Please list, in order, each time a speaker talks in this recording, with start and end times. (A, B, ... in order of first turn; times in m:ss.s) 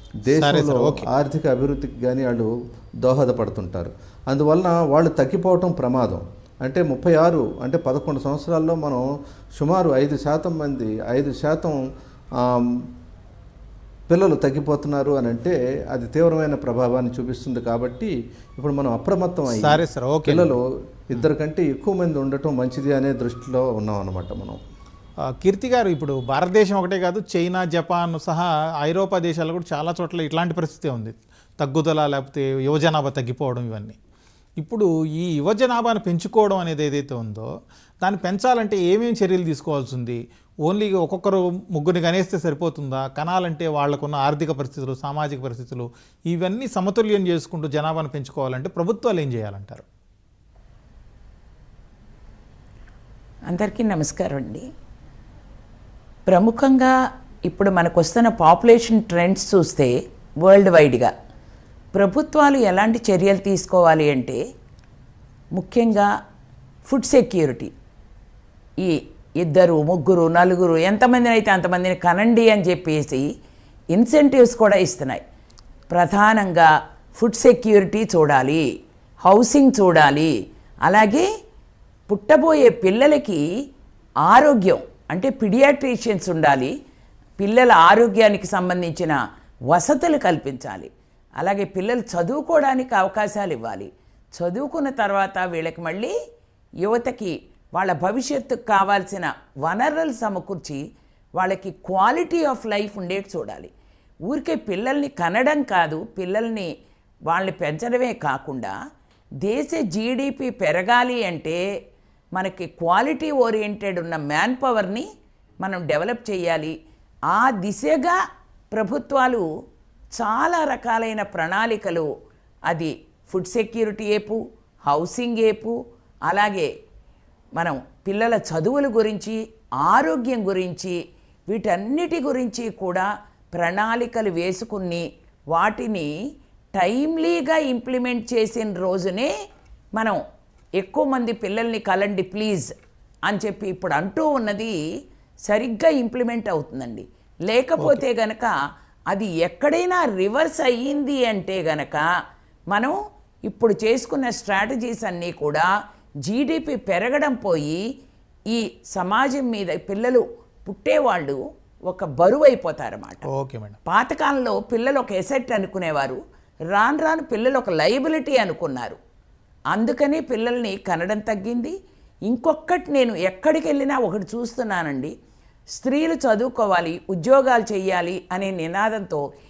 0:00.2-0:09.0 A
0:00.3-0:01.1 B
0:09.6-0:11.8 A
0:12.4-0:12.9 A
0:14.1-0:24.6 A
0:19.5-0:20.6 B
0:25.3-0:34.0 B
0:34.6-0:37.5 B
0:38.0-0:49.8 B
0:53.5-0:54.6 C
0:56.3-0:56.9 C
0:57.5-1:01.1 C
1:01.9-1:04.4 C
1:05.6-1:06.1 C
1:06.8-1:07.7 C
1:08.8-1:13.3 C
1:13.9-1:15.2 C
1:15.9-1:18.6 C
1:19.2-1:20.3 C
1:20.8-1:21.3 C
1:22.1-1:23.4 C
1:24.2-1:26.7 C
1:27.4-1:29.2 C
1:29.7-1:30.9 C
1:31.4-1:36.1 C
1:36.8-1:40.8 C
1:41.4-1:43.7 C
1:44.3-1:46.7 C
1:47.3-1:48.7 C
1:49.4-1:51.6 C
1:52.4-1:55.1 C
1:55.6-1:56.7 C
1:57.3-1:58.2 C
1:58.7-1:59.4 C
2:00.2-2:02.1 C
2:02.7-2:05.8 C
2:06.3-2:06.7 C
2:07.6-2:11.0 C
2:11.5-2:16.1 C
2:16.8-2:19.3 C
2:20.8-2:22.7 C
2:23.3-2:24.8 C
2:25.5-2:28.5 C
2:27.8-2:28.0 B
2:29.1-2:32.1 C
2:32.7-2:35.7 C
2:36.2-2:37.8 C
2:38.5-2:43.3 C
2:43.3-2:43.8 B
2:43.8-2:46.2 C
2:46.7-2:49.0 C
2:49.7-2:51.8 C
2:52.3-2:55.1 C
2:55.8-2:59.2 C